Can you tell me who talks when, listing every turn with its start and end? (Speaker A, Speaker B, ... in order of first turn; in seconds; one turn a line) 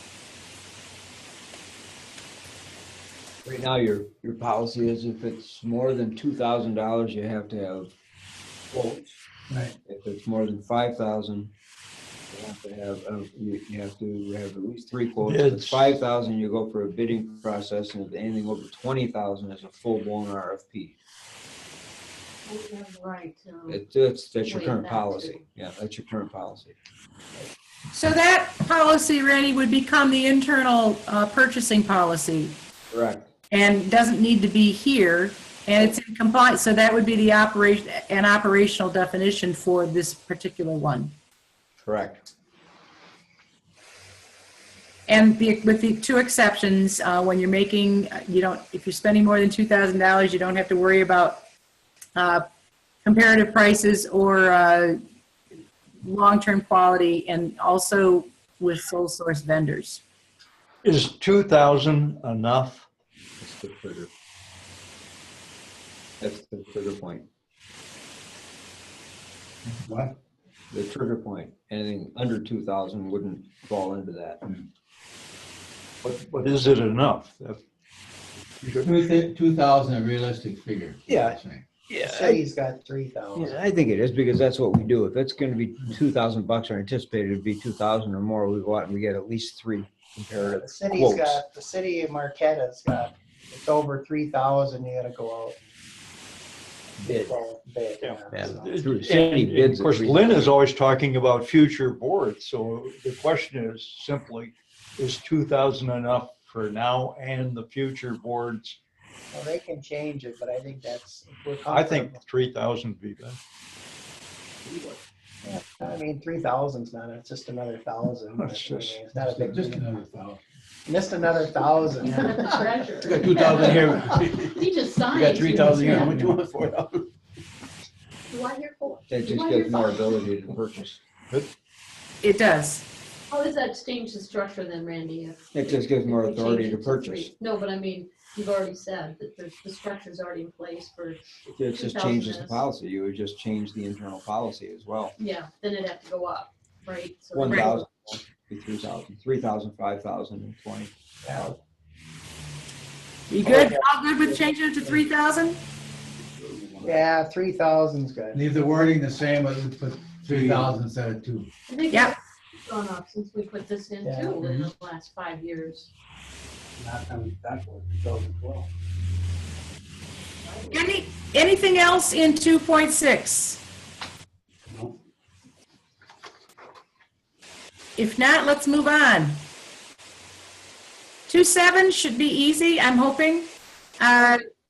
Speaker A: 3.5-7.9
Speaker A: 8.7-9.2
Speaker A: 9.8-11.5
Speaker A: 12.3-21.0
Speaker B: 15.2-15.9
Speaker C: 22.4-23.8
Speaker A: 23.7-26.8
Speaker C: 24.4-25.4
Speaker D: 27.9-32.6
Speaker A: 32.9-33.3
Speaker D: 33.5-41.1
Speaker A: 41.8-42.3
Speaker D: 45.1-51.4
Speaker D: 52.2-52.5
Speaker D: 53.0-55.0
Speaker D: 56.0-60.0
Speaker B: 60.8-62.9
Speaker A: 63.4-64.1
Speaker A: 66.2-67.3
Speaker E: 69.8-70.2
Speaker A: 70.7-74.6
Speaker B: 76.0-77.6
Speaker B: 78.7-78.9
Speaker E: 78.7-81.7
Speaker A: 81.1-82.4
Speaker F: 82.0-83.6
Speaker A: 83.3-91.4
Speaker F: 90.4-95.6
Speaker A: 97.0-97.3
Speaker F: 97.0-98.7
Speaker B: 98.0-108.8
Speaker A: 98.3-100.4
Speaker F: 109.3-112.2
Speaker B: 111.7-113.4
Speaker E: 114.7-115.0
Speaker F: 115.5-119.9
Speaker B: 118.3-119.0
Speaker E: 119.1-120.4
Speaker F: 120.9-122.7
Speaker C: 122.0-126.2
Speaker E: 123.0-127.0
Speaker C: 128.3-130.3
Speaker A: 129.1-131.1
Speaker D: 132.2-132.8
Speaker C: 133.3-142.6
Speaker A: 135.5-137.3
Speaker A: 141.5-145.2
Speaker C: 145.2-147.8
Speaker A: 147.3-150.9
Speaker D: 147.5-147.7
Speaker F: 151.2-151.6
Speaker D: 153.3-155.6
Speaker F: 153.4-154.4
Speaker E: 156.3-157.0
Speaker F: 156.8-158.5
Speaker E: 158.3-161.5
Speaker C: 161.7-165.9
Speaker F: 164.0-164.4
Speaker E: 164.4-164.7
Speaker E: 166.8-168.7
Speaker C: 170.4-170.9
Speaker D: 170.7-173.6
Speaker E: 174.7-174.9
Speaker D: 178.0-179.4
Speaker D: 181.3-184.4